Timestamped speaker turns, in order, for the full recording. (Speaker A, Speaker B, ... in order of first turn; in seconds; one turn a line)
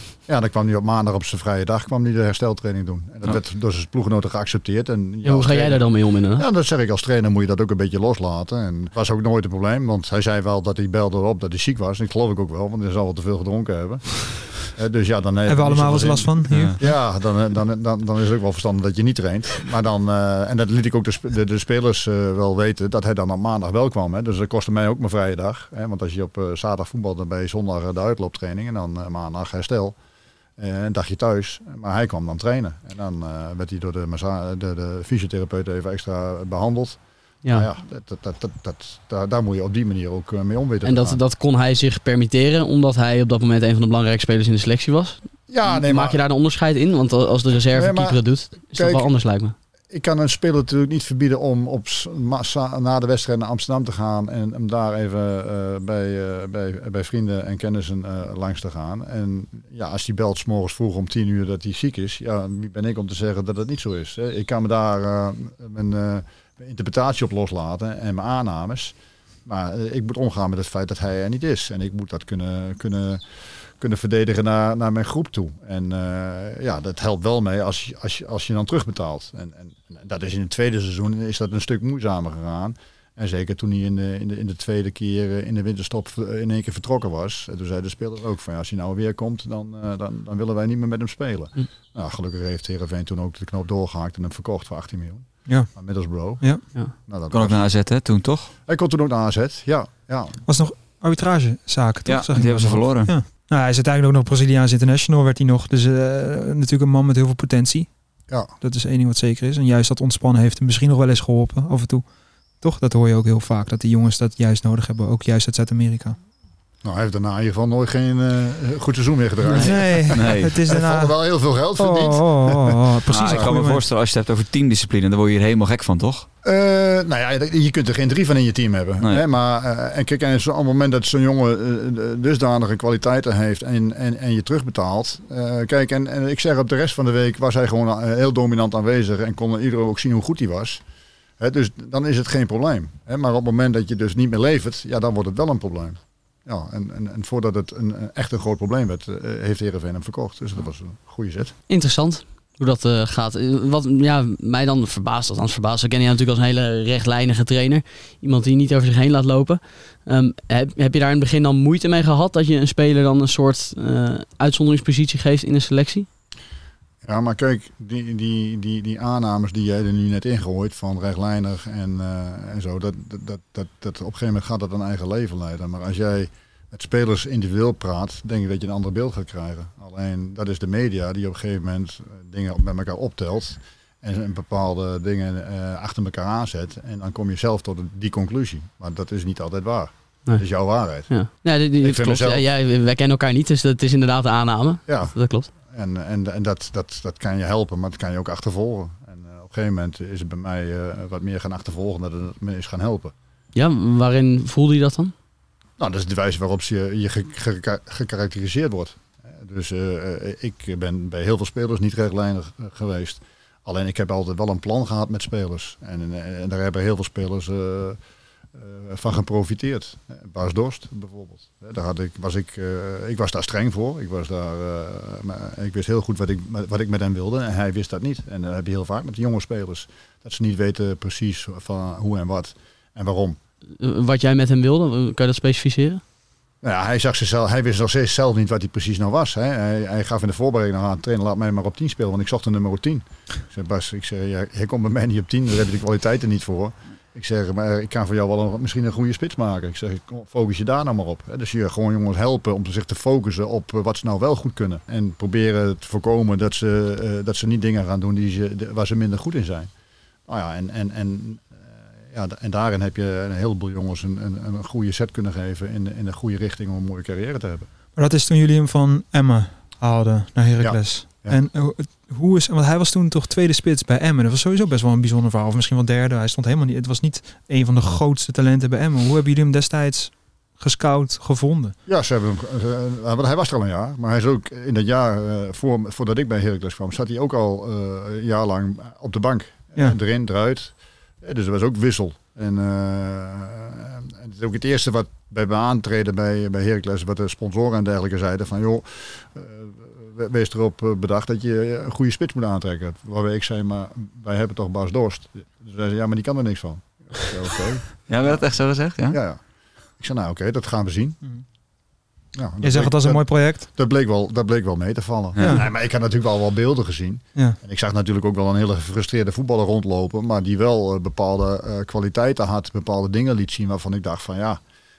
Speaker A: 0.2-29.9
Speaker B: 5.2-6.4
Speaker C: 15.5-16.8
Speaker D: 16.5-16.8
Speaker A: 30.6-41.2
Speaker B: 40.8-49.5
Speaker A: 45.5-46.2
Speaker A: 47.7-49.1
Speaker A: 49.9-68.9
Speaker A: 69.5-97.6
Speaker D: 97.3-98.5
Speaker A: 98.7-100.4
Speaker C: 100.5-107.9
Speaker D: 102.0-103.2
Speaker C: 108.6-112.1
Speaker C: 112.6-116.2
Speaker A: 116.8-123.5
Speaker C: 119.5-121.1
Speaker D: 119.5-120.5
Speaker C: 121.8-123.8
Speaker D: 123.1-126.3
Speaker A: 126.4-140.8
Speaker A: 141.4-151.5
Speaker B: 151.7-166.1
Speaker A: 167.0-191.1
Speaker B: 191.1-195.5
Speaker A: 191.8-192.4
Speaker A: 194.9-203.1
Speaker B: 203.5-205.1
Speaker A: 205.8-218.0
Speaker A: 218.5-233.4
Speaker B: 233.8-236.0
Speaker A: 236.6-259.7
Speaker A: 260.3-267.7
Speaker C: 267.9-281.7
Speaker A: 270.6-271.4
Speaker A: 281.9-308.4
Speaker D: 308.1-309.2
Speaker A: 309.1-309.4
Speaker A: 310.0-311.2
Speaker A: 312.3-324.6
Speaker C: 312.6-313.6
Speaker D: 315.3-315.6
Speaker C: 315.4-315.6